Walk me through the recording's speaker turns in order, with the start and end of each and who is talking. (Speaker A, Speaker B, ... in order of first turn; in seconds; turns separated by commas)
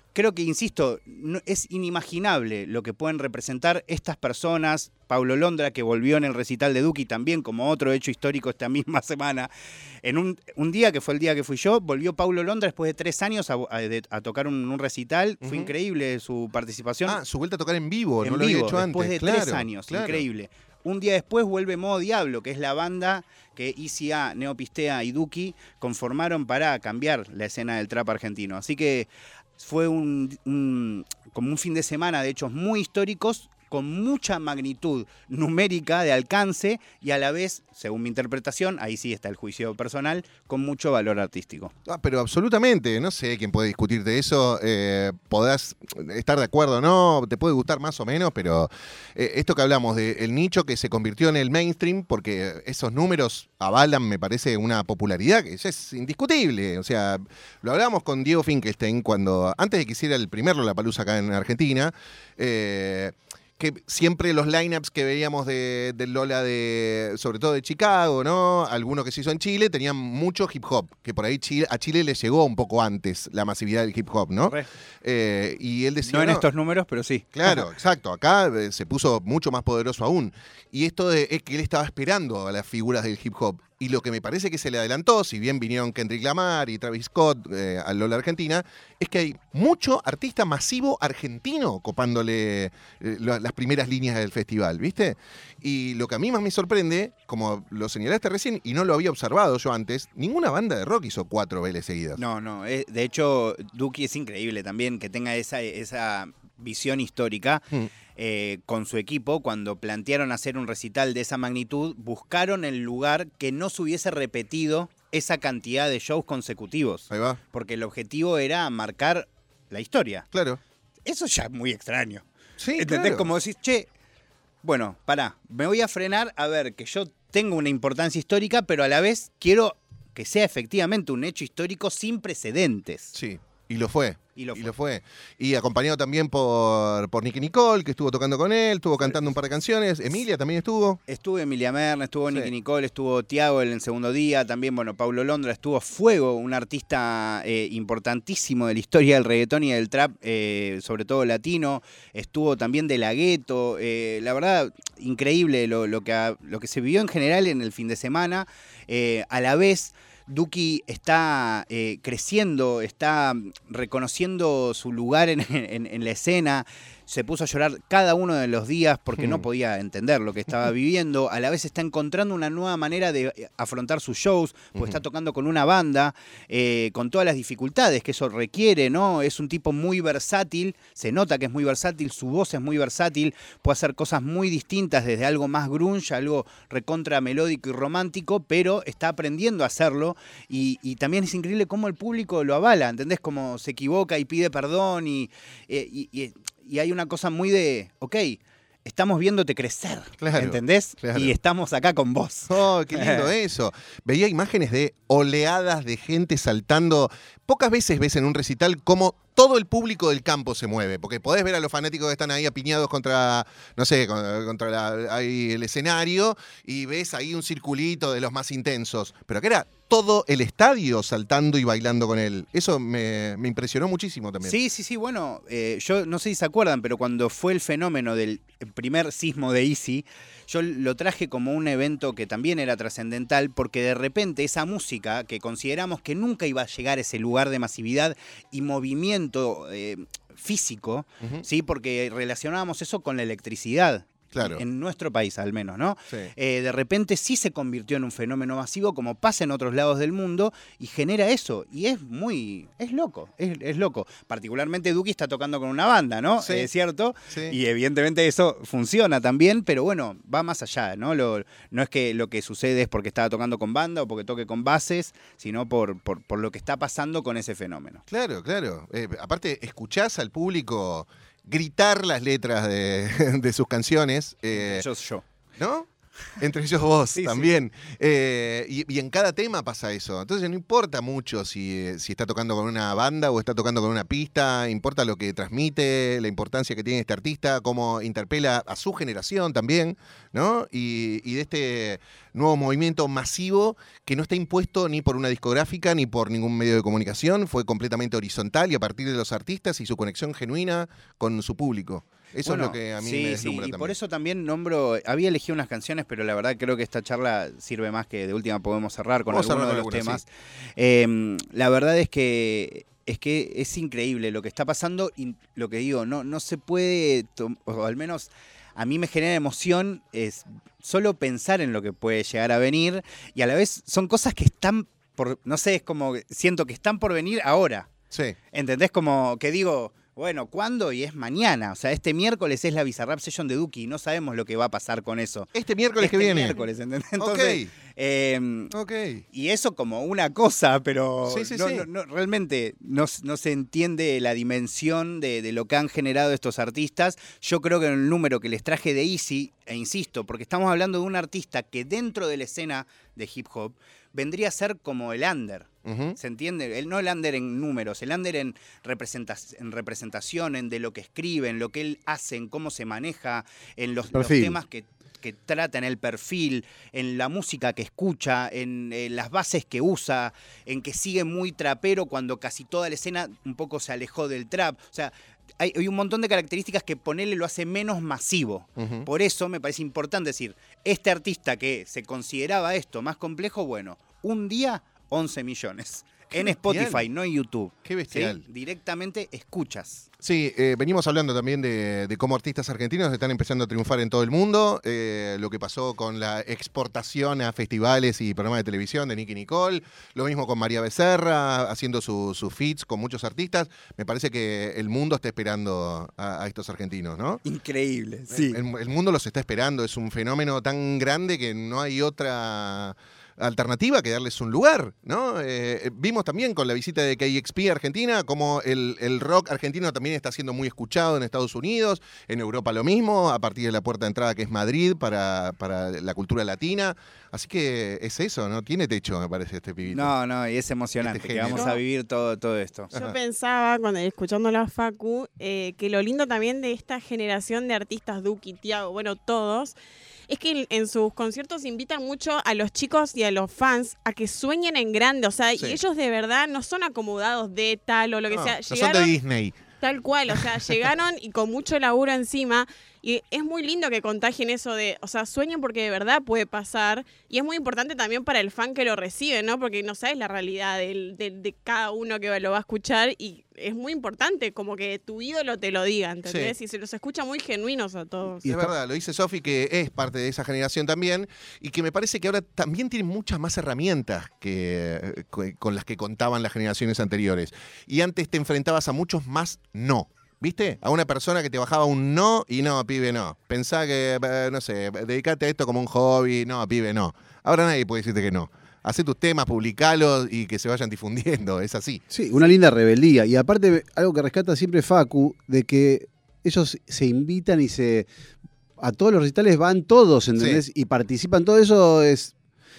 Speaker A: 0.1-9.5, Speaker A: 10.0-17.2, Speaker B: 15.4-15.7, Speaker B: 17.1-20.2, Speaker A: 18.2-41.7, Speaker B: 41.9-76.5, Speaker A: 76.0-77.6, Speaker B: 77.3-102.2, Speaker A: 102.2-107.6, Speaker A: 108.1-120.3, Speaker B: 117.1-117.4, Speaker B: 120.3-120.6, Speaker A: 121.0-122.2, Speaker B: 122.6-123.3, Speaker A: 122.8-123.9, Speaker A: 124.6-133.1, Speaker B: 133.1-141.0, Speaker A: 134.3-134.8, Speaker A: 141.1-203.3, Speaker B: 169.2-169.4, Speaker B: 174.7-175.0, Speaker B: 200.2-201.3, Speaker B: 202.5-224.6, Speaker A: 224.4-268.0, Speaker B: 244.3-244.6, Speaker B: 256.4-256.7, Speaker B: 257.3-257.6, Speaker B: 268.1-274.9, Speaker A: 274.5-275.2, Speaker B: 275.6-275.9, Speaker B: 276.4-303.9, Speaker A: 277.1-277.5, Speaker A: 302.4-327.9, Speaker B: 309.3-310.2, Speaker B: 328.1-328.4, Speaker A: 328.5-338.7, Speaker B: 335.5-336.6, Speaker B: 337.2-337.7, Speaker B: 338.7-339.2, Speaker A: 339.3-390.1, Speaker B: 341.2-341.9, Speaker B: 355.8-356.2, Speaker C: 364.1-364.6, Speaker B: 378.8-379.1, Speaker B: 386.3-387.1, Speaker B: 387.8-388.4, Speaker B: 390.2-407.4, Speaker A: 407.4-408.6, Speaker B: 408.3-430.2, Speaker A: 429.9-432.9, Speaker B: 431.0-431.7, Speaker D: 431.5-431.8, Speaker D: 432.9-439.8, Speaker D: 440.3-449.1, Speaker B: 448.3-449.6, Speaker D: 449.8-468.7, Speaker B: 450.3-450.8, Speaker B: 466.2-466.5, Speaker B: 468.4-492.0, Speaker C: 492.1-498.1, Speaker C: 498.8-502.3